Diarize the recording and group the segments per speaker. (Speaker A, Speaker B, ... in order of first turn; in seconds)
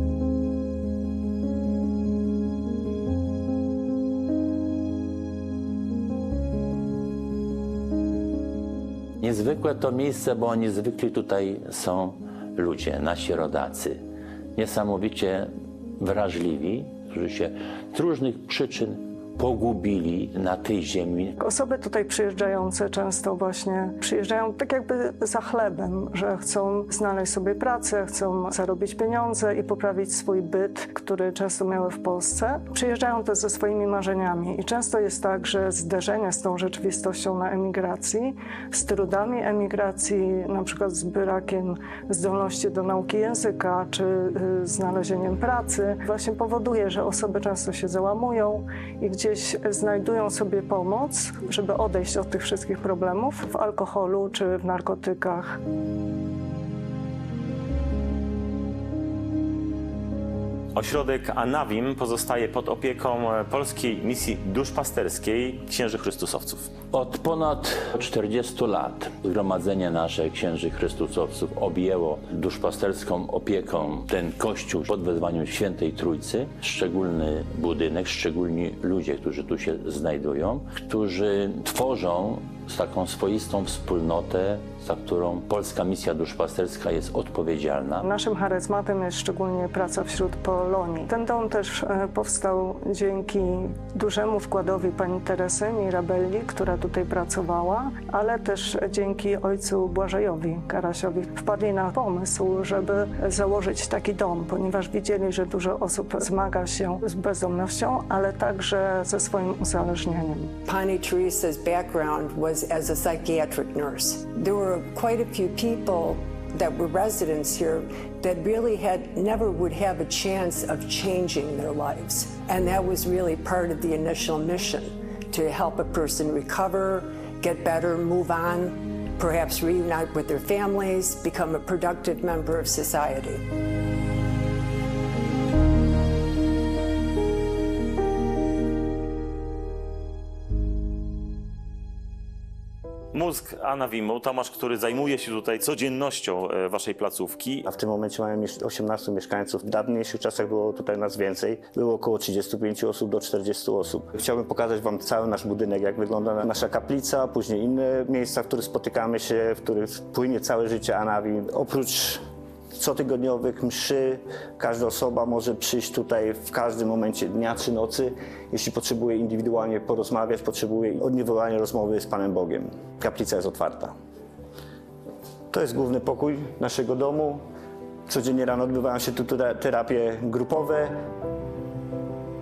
Speaker A: 9.2-14.0, 14.6-21.3, 66.9-88.0
Speaker B: 21.4-55.6, 88.0-110.5
Speaker C: 60.7-66.7, 143.1-147.7
Speaker D: 110.7-133.4
Speaker E: 147.7-162.2, 162.7-173.9, 175.5-177.4, 178.1-180.9